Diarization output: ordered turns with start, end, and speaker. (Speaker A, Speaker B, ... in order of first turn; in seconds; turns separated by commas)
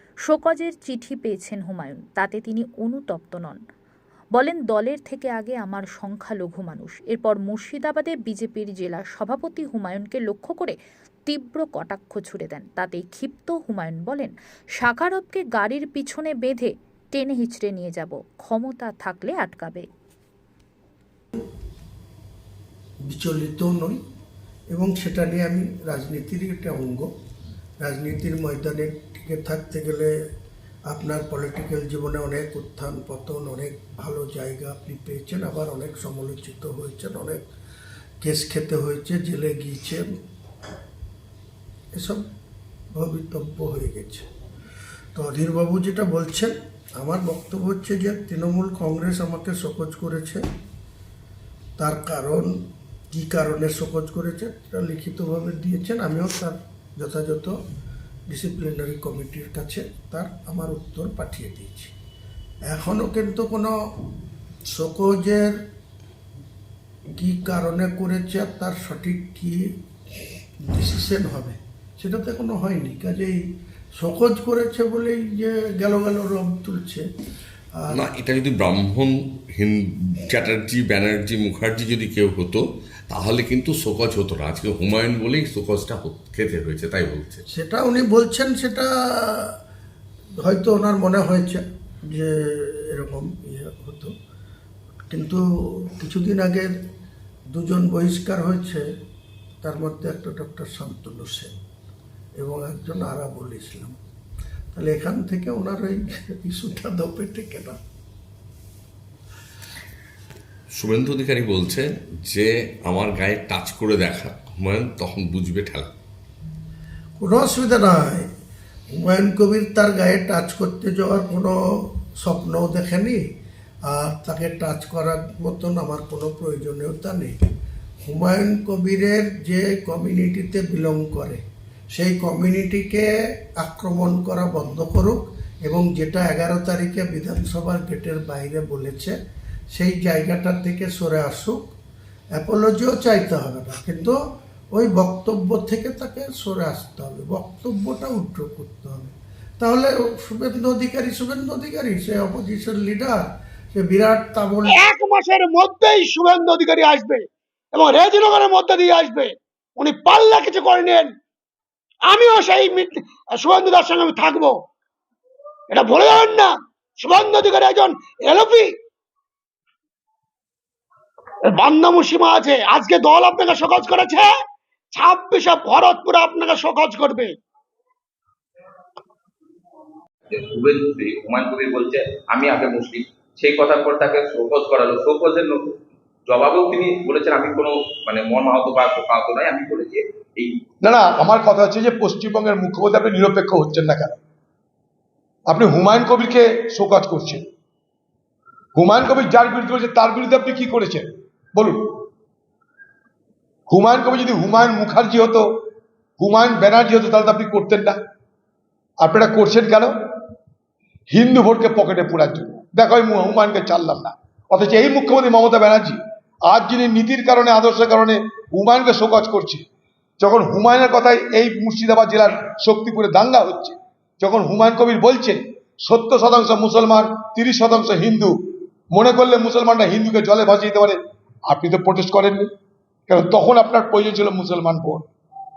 Speaker A: 0.2-3.6, Speaker A: 4.4-10.8, Speaker A: 11.3-19.9, Speaker B: 23.1-24.0, Speaker B: 24.7-27.1, Speaker B: 27.8-30.1, Speaker B: 30.9-37.4, Speaker B: 38.2-40.1, Speaker B: 42.0-42.2, Speaker B: 42.9-44.3, Speaker B: 45.1-50.4, Speaker B: 51.8-52.5, Speaker B: 53.1-57.5, Speaker B: 58.3-62.0, Speaker B: 62.7-63.7, Speaker B: 64.7-65.5, Speaker B: 67.2-69.6, Speaker B: 70.7-73.4, Speaker B: 74.0-77.0, Speaker B: 77.8-78.0, Speaker C: 77.9-87.4, Speaker B: 87.5-89.5, Speaker B: 90.4-94.1, Speaker B: 95.1-96.7, Speaker B: 97.5-98.8, Speaker B: 99.6-101.5, Speaker B: 102.4-103.9, Speaker B: 104.7-107.8, Speaker C: 110.8-115.9, Speaker B: 117.2-118.2, Speaker B: 119.0-121.6, Speaker B: 122.2-123.2, Speaker B: 123.9-127.4, Speaker B: 128.0-131.4, Speaker B: 131.9-139.1, Speaker B: 139.7-141.7, Speaker B: 142.3-144.2, Speaker B: 144.7-154.8, Speaker D: 154.7-161.1, Speaker D: 162.0-164.6, Speaker D: 165.7-168.7, Speaker D: 171.4-174.3, Speaker D: 174.9-177.3, Speaker E: 180.3-185.8, Speaker E: 186.3-190.5, Speaker F: 190.8-194.2, Speaker F: 195.5-197.5, Speaker F: 198.8-202.0, Speaker F: 203.7-205.5, Speaker F: 206.2-208.0, Speaker F: 209.0-209.9, Speaker F: 211.1-219.6, Speaker F: 220.2-228.4, Speaker F: 228.9-232.5, Speaker F: 233.1-235.1